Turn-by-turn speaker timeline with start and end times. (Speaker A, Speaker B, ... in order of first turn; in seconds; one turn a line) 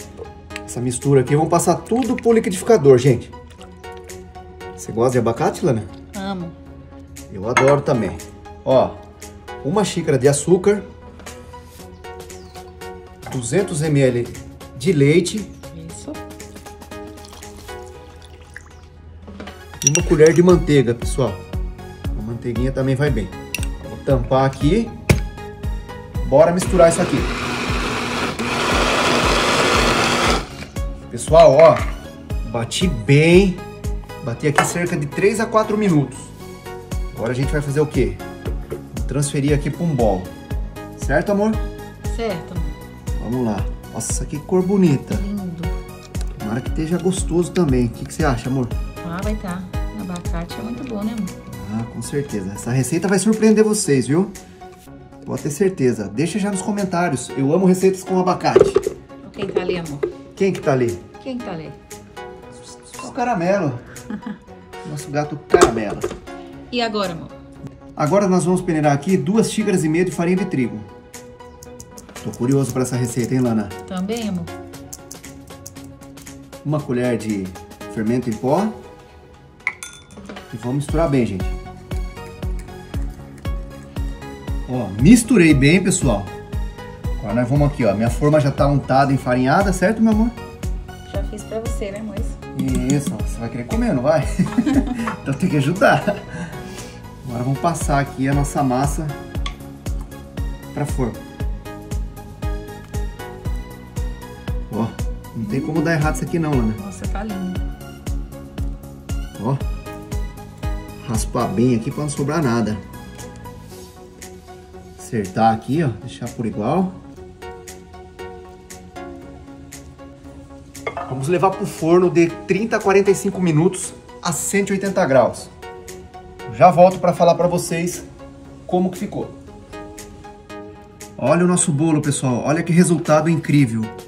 Speaker A: 0.7-3.3
Speaker A: 4.8-5.9
Speaker B: 6.1-6.5
Speaker A: 7.3-9.0
Speaker A: 9.6-10.9
Speaker A: 13.3-15.5
Speaker B: 15.7-16.2
Speaker A: 19.8-21.4
Speaker A: 22.1-24.9
Speaker A: 26.2-27.3
Speaker A: 31.1-31.8
Speaker A: 32.4-33.6
Speaker A: 34.2-36.3
Speaker A: 37.1-38.2
Speaker A: 38.9-40.3
Speaker A: 41.0-41.6
Speaker B: 42.0-42.8
Speaker A: 43.1-45.2
Speaker B: 45.1-45.7
Speaker A: 46.4-48.7
Speaker B: 49.0-51.3
Speaker A: 51.5-54.4
Speaker A: 55.2-58.8
Speaker B: 59.2-60.1
Speaker A: 60.4-61.0
Speaker B: 61.2-61.8
Speaker A: 62.8-63.8
Speaker A: 64.8-66.1
Speaker B: 66.7-67.3
Speaker A: 68.0-70.9
Speaker A: 72.2-73.7
Speaker B: 73.8-74.5
Speaker A: 76.6-78.8
Speaker A: 80.5-81.5
Speaker A: 84.7-86.3
Speaker A: 87.2-90.3
Speaker B: 91.1-92.4
Speaker A: 92.5-96.5
Speaker A: 97.2-99.2
Speaker A: 100.7-101.2
Speaker A: 104.7-106.8
Speaker B: 105.4-107.6
Speaker A: 109.4-109.6
Speaker A: 111.0-112.8
Speaker A: 115.0-117.0
Speaker A: 121.0-125.5
Speaker A: 126.5-128.1
Speaker A: 128.7-129.3
Speaker A: 131.2-133.9